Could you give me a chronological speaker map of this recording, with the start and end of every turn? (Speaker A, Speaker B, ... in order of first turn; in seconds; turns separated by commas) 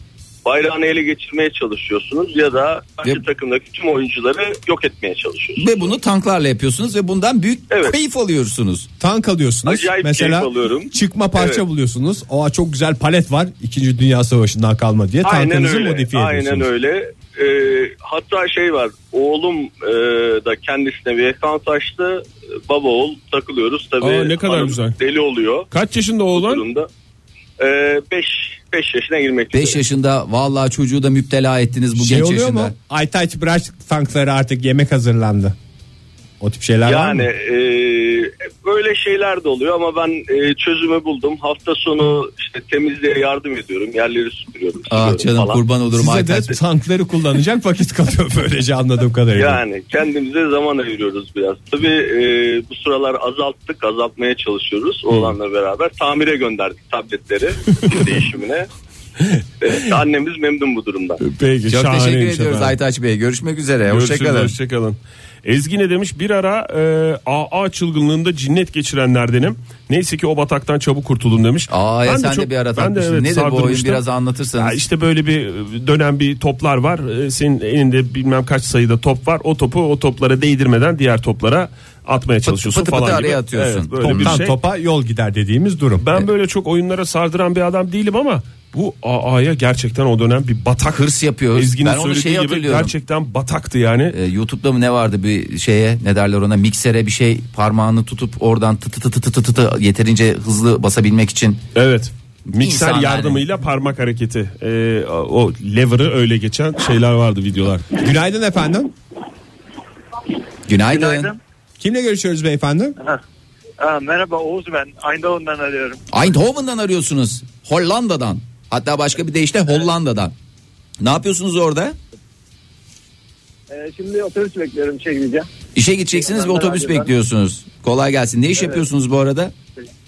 Speaker A: 0.5-5.9, Speaker B: 5.6-8.9, Speaker C: 9.0-16.7, Speaker A: 9.7-11.6, Speaker A: 15.2-25.7, Speaker D: 24.0-25.0, Speaker D: 25.7-26.6, Speaker A: 26.3-26.9, Speaker A: 27.6-29.8, Speaker B: 29.5-32.7, Speaker C: 32.0-35.6, Speaker C: 36.4-37.3, Speaker A: 36.9-45.6, Speaker B: 44.9-46.6, Speaker C: 45.9-49.6, Speaker A: 49.4-58.7, Speaker D: 55.1-55.4, Speaker D: 59.2-59.7, Speaker A: 59.6-61.2, Speaker D: 61.2-62.8, Speaker B: 61.7-64.5, Speaker D: 63.9-74.0, Speaker B: 71.7-74.8, Speaker D: 74.6-84.5, Speaker B: 82.5-84.4, Speaker C: 84.0-86.1, Speaker D: 86.0-94.2, Speaker B: 90.9-92.9, Speaker B: 94.1-101.6, Speaker D: 101.8-107.9, Speaker B: 102.5-103.4, Speaker C: 108.0-108.9, Speaker B: 110.7-111.3, Speaker E: 110.9-111.4, Speaker C: 111.8-113.0, Speaker E: 113.8-116.0, Speaker B: 116.1-120.3, Speaker B: 121.0-122.0, Speaker E: 123.7-125.5, Speaker B: 125.8-129.5, Speaker E: 126.2-127.1